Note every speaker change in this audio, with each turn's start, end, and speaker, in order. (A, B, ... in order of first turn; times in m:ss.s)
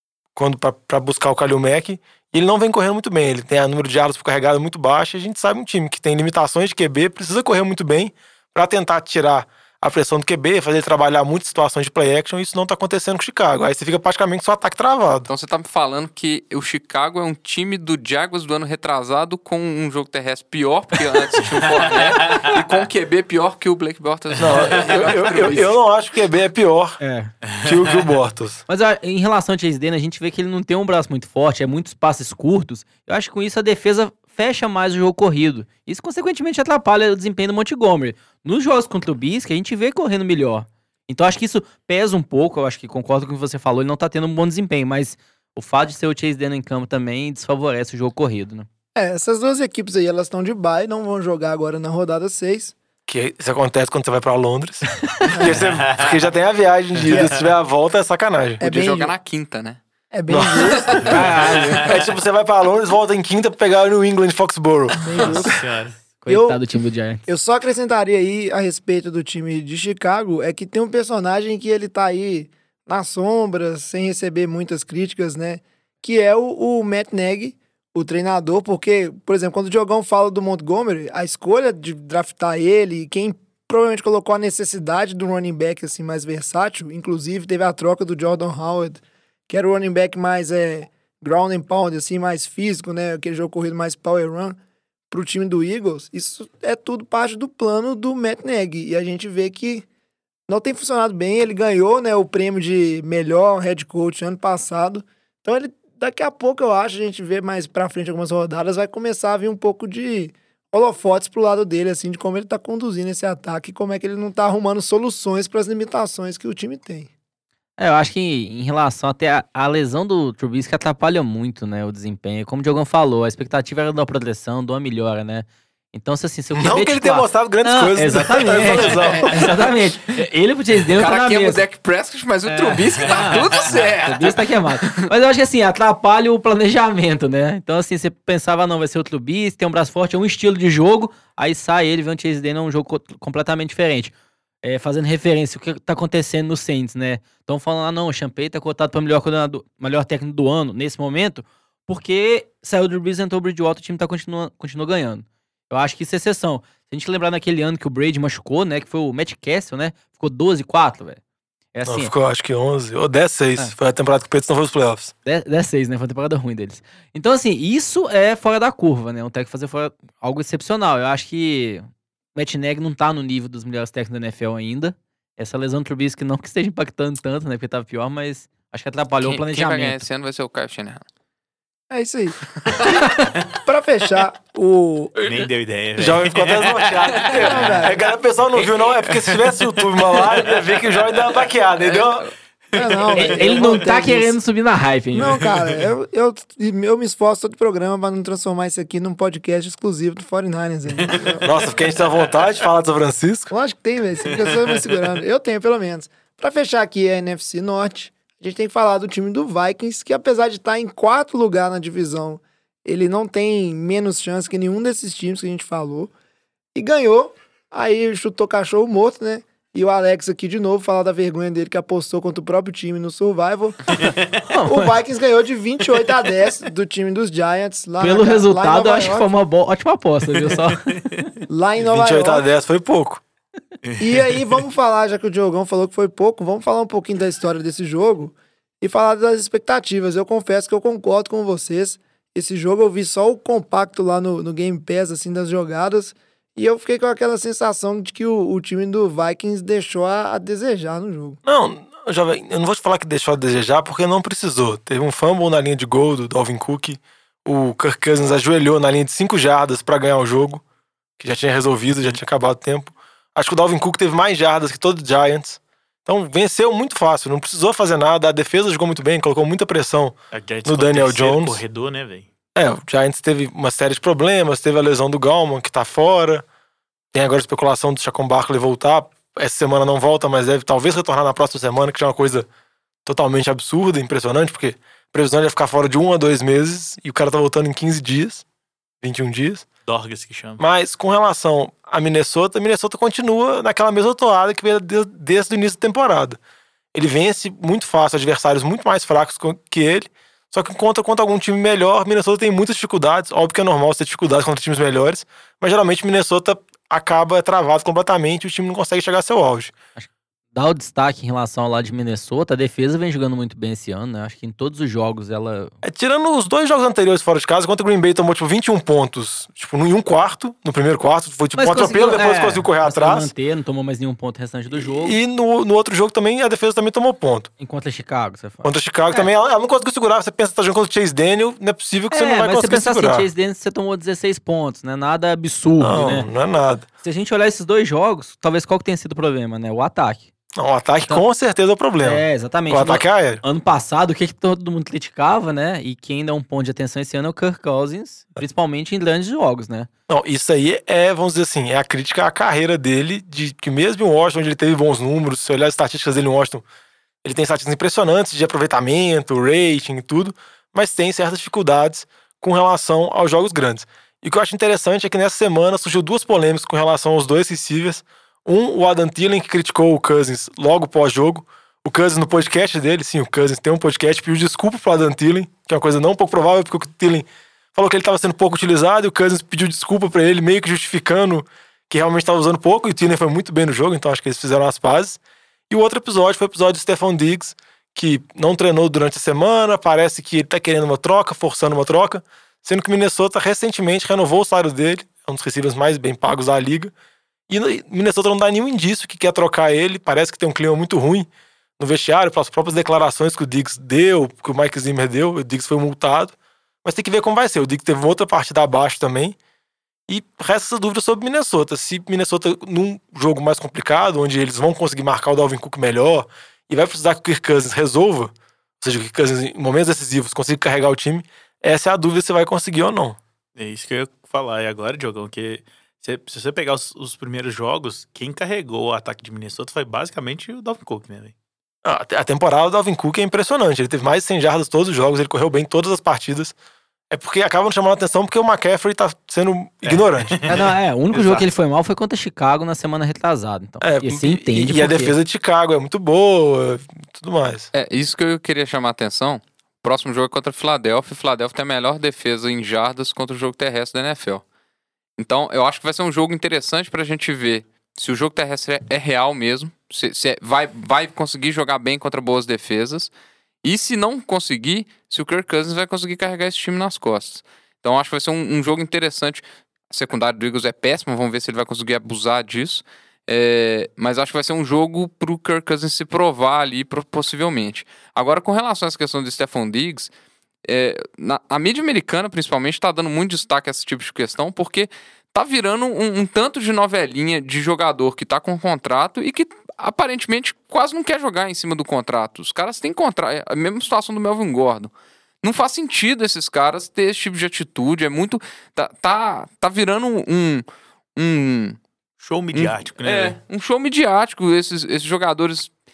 0:00.4-0:15.3 A
0:15.3-0:25.7 B
0:22.1-0:22.6 C
0:24.4-0:27.0 A
0:24.4-0:25.0 C
0:27.0-0:27.3 D
0:27.5-0:28.0 C
0:27.6-0:28.6 A
0:28.7-0:48.7 D
0:49.0-0:52.7 E
0:53.1-0:58.6 A
0:55.4-0:56.1 C
0:57.0-0:57.3 C
0:58.6-0:59.1 E
0:58.6-0:59.8 B
1:00.1-1:01.3 E
1:00.3-1:05.0 A
1:01.1-1:01.8 D
1:05.0-1:05.6 E
1:05.4-1:06.0 C
1:06.2-1:07.2 D
1:06.3-1:06.6 E
1:07.3-1:34.6 E
1:35.1-1:39.8 E
1:40.5-1:57.1 E
1:57.8-2:11.6 D
2:06.6-2:09.6 A
2:08.8-2:09.2 C
2:11.0-2:15.1 B
2:12.5-2:24.1 D
2:24.6-2:41.2 D
2:41.7-2:42.1 D
2:41.8-2:45.1 A
2:45.2-3:00.0 D
2:59.2-3:01.0 B
3:01.9-3:02.4 E
3:03.5-3:05.2 E
3:05.2-3:07.3 C
3:06.0-3:12.3 A
3:07.4-3:08.0 E
3:12.7-3:14.3 E
3:13.1-3:15.4 D
3:15.1-3:21.5 E
3:21.4-3:23.5 A
3:23.5-3:36.1 E
3:24.4-3:24.8 C
3:36.7-3:44.1 E
3:43.9-3:44.3 C
3:44.5-3:44.9 D
3:44.7-3:49.3 E
3:48.0-3:51.1 D
3:50.4-3:50.7 C
3:51.5-3:52.4 E
3:51.8-3:53.2 A
3:53.8-3:54.2 C
3:54.0-4:11.4 E
4:11.4-4:20.6 A
4:21.2-4:31.6 A
4:30.3-4:32.3 C
4:32.6-4:36.4 A
4:37.1-4:42.5 A
4:43.0-4:48.4 A
4:49.0-4:49.6 A
4:49.9-4:50.6 C
4:50.6-4:56.4 A
4:56.9-5:09.7 A
5:10.0-5:15.7 D
5:15.8-5:23.3 A
5:21.5-5:25.2 D
5:24.7-5:27.5 A
5:27.6-5:29.3 D
5:28.6-5:33.3 A
5:32.1-5:36.3 D
5:35.8-5:36.9 A
5:37.0-5:40.3 D
5:40.5-5:43.4 A
5:42.0-5:49.9 D
5:50.1-5:56.6 A
5:57.2-6:36.9 A
6:37.5-6:41.3 A
6:41.8-6:49.4 A
6:50.1-7:03.2 A
7:03.6-7:11.3 C
7:11.8-7:16.5 A
7:17.1-7:20.4 A
7:19.8-7:21.5 C
7:20.5-7:25.2 D
7:23.8-7:27.7 A
7:27.7-7:34.4 B
7:35.2-7:43.1 B
7:43.6-8:00.1 B
8:00.6-8:20.6 B
8:21.2-8:21.8 B
8:22.2-8:23.4 C
8:22.5-8:25.7 B